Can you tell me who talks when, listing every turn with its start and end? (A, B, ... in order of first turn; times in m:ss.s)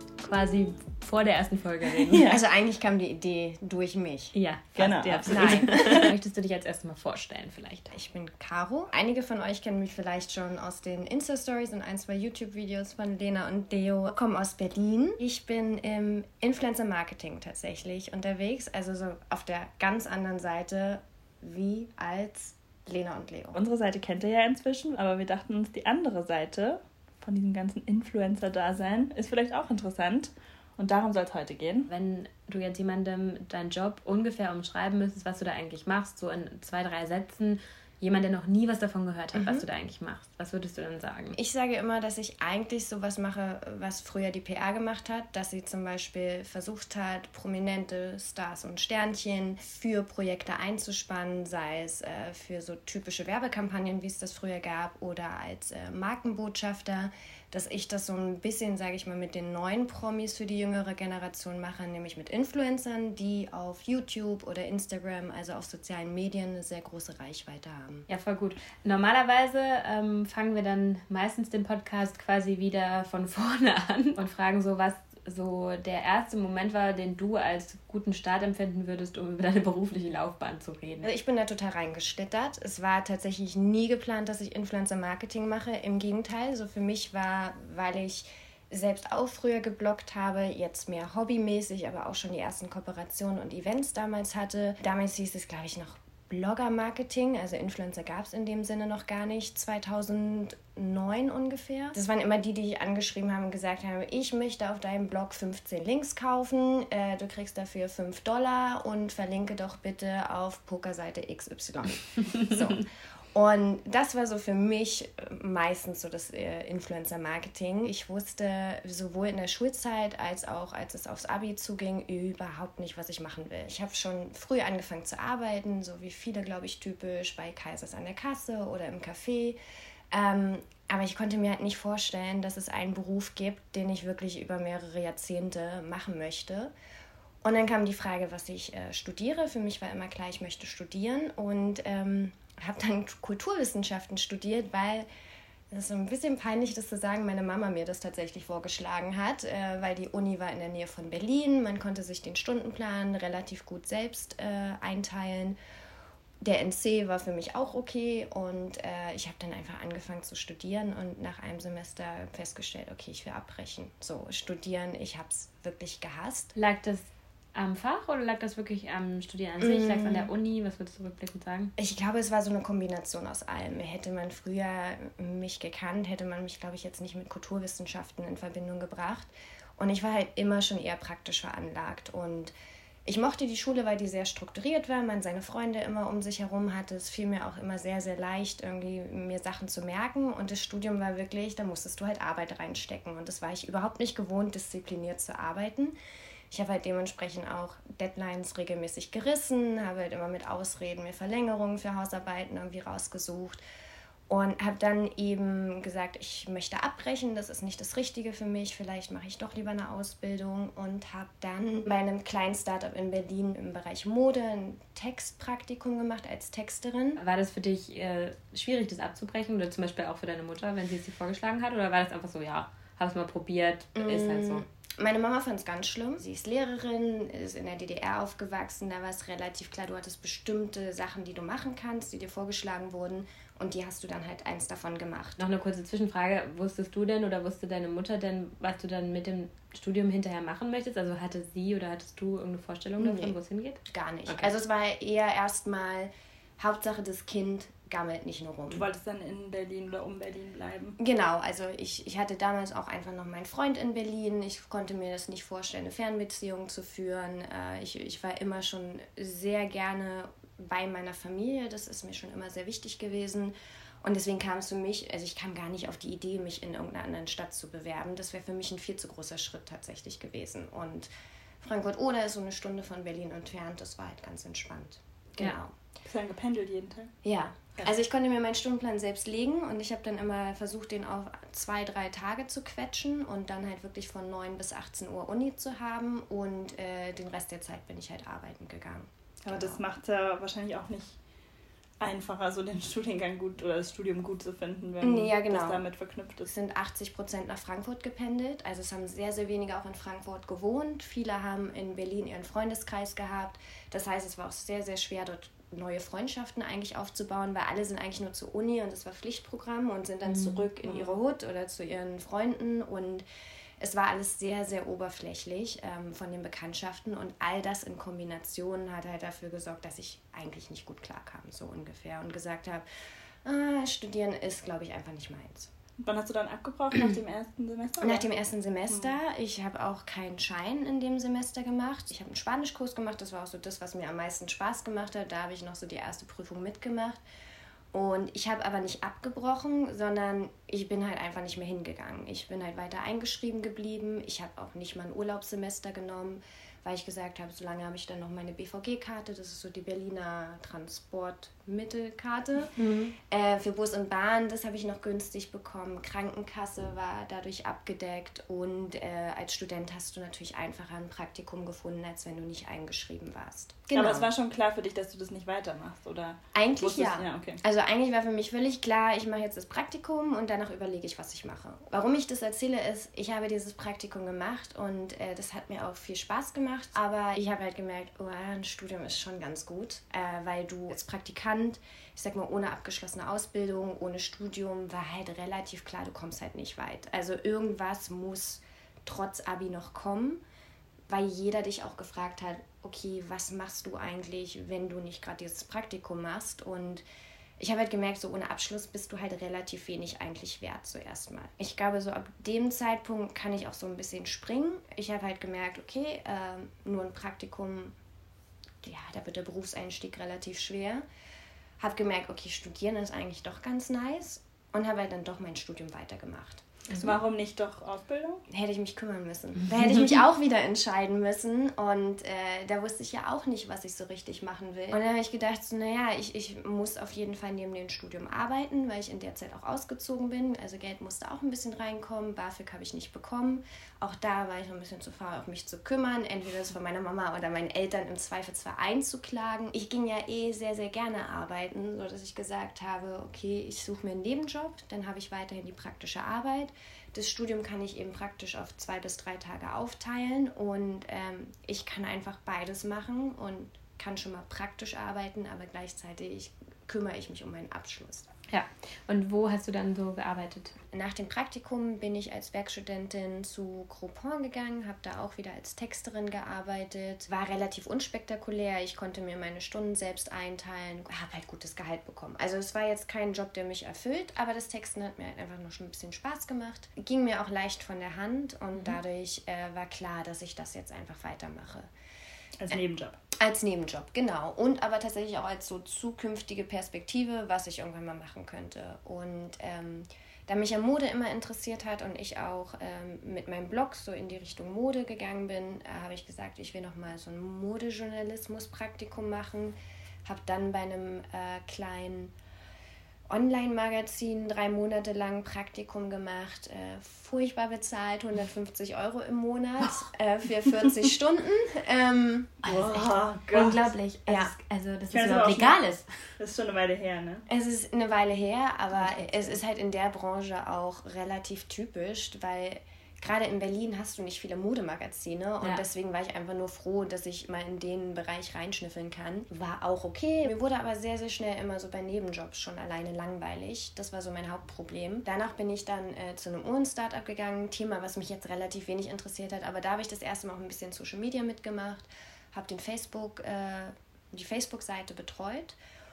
0:00.2-0:02.2 A
0:01.8-0:02.4 B
0:02.3-0:04.3 C
0:04.3-0:07.9 A
0:04.8-0:06.1 B
0:05.2-0:06.0 C
0:07.9-0:23.6 C
0:23.5-0:31.9 B
0:31.9-0:41.4 A
0:39.3-0:39.6 C
0:41.3-1:08.1 C
1:08.1-1:21.0 A
1:21.0-2:09.6 C
2:10.1-2:16.7 C
2:17.4-2:25.1 C
2:25.7-2:35.6 C
2:36.4-2:46.5 C
2:46.5-2:51.7 A
2:49.6-2:50.3 C
2:51.8-3:02.5 C
3:03.0-3:15.9 C
3:16.5-3:23.6 C
3:24.3-3:37.2 C
3:37.2-3:44.6 A
3:43.9-3:55.4 C
3:55.4-4:04.5 A
4:03.0-4:08.9 C
4:08.7-4:11.0 B
4:11.0-4:31.1 C
4:31.6-4:35.7 C
4:36.0-4:37.1 B
4:37.2-4:49.8 C
4:49.4-4:51.2 B
4:52.0-4:56.5 B
4:55.0-4:55.8 C
4:56.5-5:13.2 C
5:10.2-5:10.6 A
5:10.8-5:11.2 B
5:13.8-5:22.8 C
5:23.4-5:25.7 C
5:26.0-5:28.3 B
5:28.0-5:37.2 C
5:37.9-6:04.3 C
5:52.8-5:53.1 A
6:03.9-6:07.6 B
6:06.5-6:30.4 C
6:31.1-6:37.0 C
6:37.6-6:47.9 C
6:48.8-6:51.0 C
6:51.8-6:56.6 C
6:56.9-6:57.1 A
6:57.0-6:58.5 B
6:58.5-7:38.3 C
7:38.5-7:40.8 A
7:40.9-8:01.9 C
8:02.6-8:03.2 B
8:03.4-8:22.3 C
8:23.3-8:32.8 C
8:32.6-8:33.9 B
8:32.7-8:36.1 A
8:34.2-8:34.5 C
8:35.1-8:35.8 B
8:36.4-8:37.4 B
8:37.5-9:05.8 C
8:39.0-8:39.6 A